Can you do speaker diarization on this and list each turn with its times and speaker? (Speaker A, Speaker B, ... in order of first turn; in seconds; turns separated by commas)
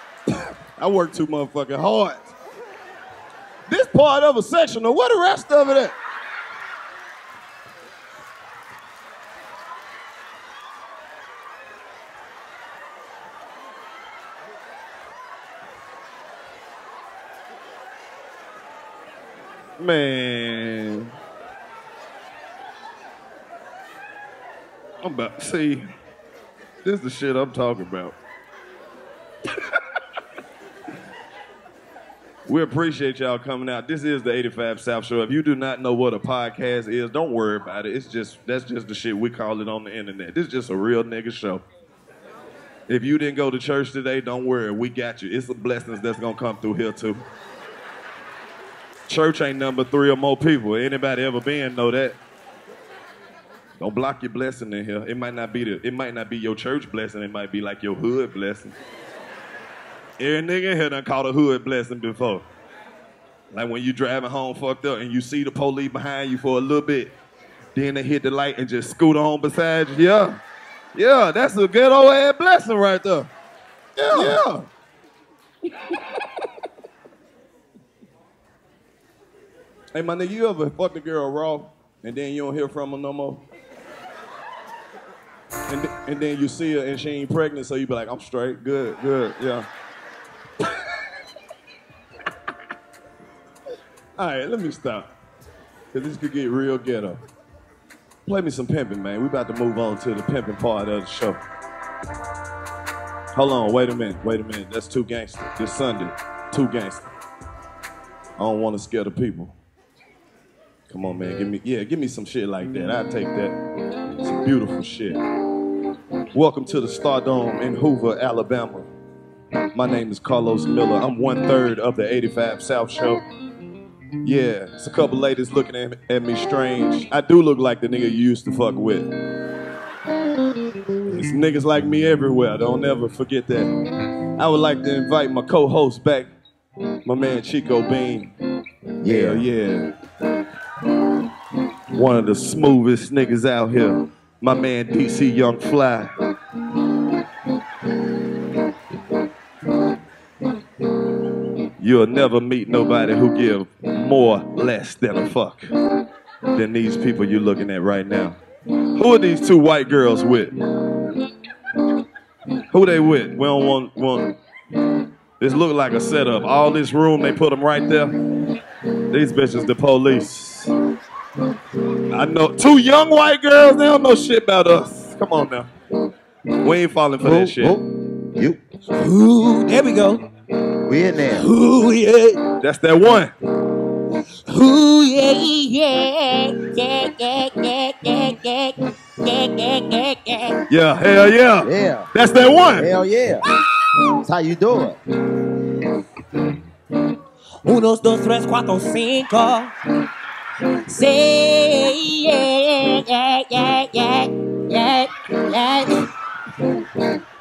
Speaker A: 0.7-2.3, Speaker A: 3.7-5.9, Speaker A: 19.8-21.1, Speaker A: 25.0-25.8, Speaker A: 26.8-28.1, Speaker A: 32.5-41.6, Speaker A: 42.9-47.2, Speaker A: 49.1-52.2, Speaker A: 53.8-58.8, Speaker A: 60.2-62.4, Speaker A: 63.5-67.1, Speaker A: 67.7-70.4, Speaker A: 70.9-73.3, Speaker A: 74.0-74.7, Speaker A: 79.9-83.4, Speaker A: 85.7-89.7, Speaker A: 94.2-95.1, Speaker A: 95.9-97.2, Speaker A: 98.2-101.4, Speaker A: 103.3-107.1, Speaker A: 108.4-109.6, Speaker A: 110.9-113.5, Speaker A: 114.2-115.2, Speaker A: 116.3-118.9, Speaker A: 119.7-123.2, Speaker A: 124.2-129.1, Speaker A: 131.1-133.7, Speaker A: 134.4-136.3, Speaker A: 137.0-138.3, Speaker B: 139.0-139.4, Speaker A: 139.0-139.9, Speaker A: 141.9-146.1, Speaker A: 151.8-155.7, Speaker A: 156.5-158.4, Speaker A: 158.9-160.5, Speaker A: 162.7-164.3, Speaker A: 165.4-168.1, Speaker A: 169.1-170.7, Speaker A: 172.1-175.7, Speaker A: 176.6-177.8, Speaker B: 177.2-178.6, Speaker C: 178.9-180.2, Speaker B: 180.8-181.4, Speaker C: 181.3-182.4, Speaker A: 182.6-183.3, Speaker C: 184.4-190.6, Speaker A: 190.7-193.0, Speaker B: 191.6-192.1, Speaker B: 192.7-193.4, Speaker B: 194.2-195.0, Speaker C: 197.6-199.7, Speaker C: 200.8-206.0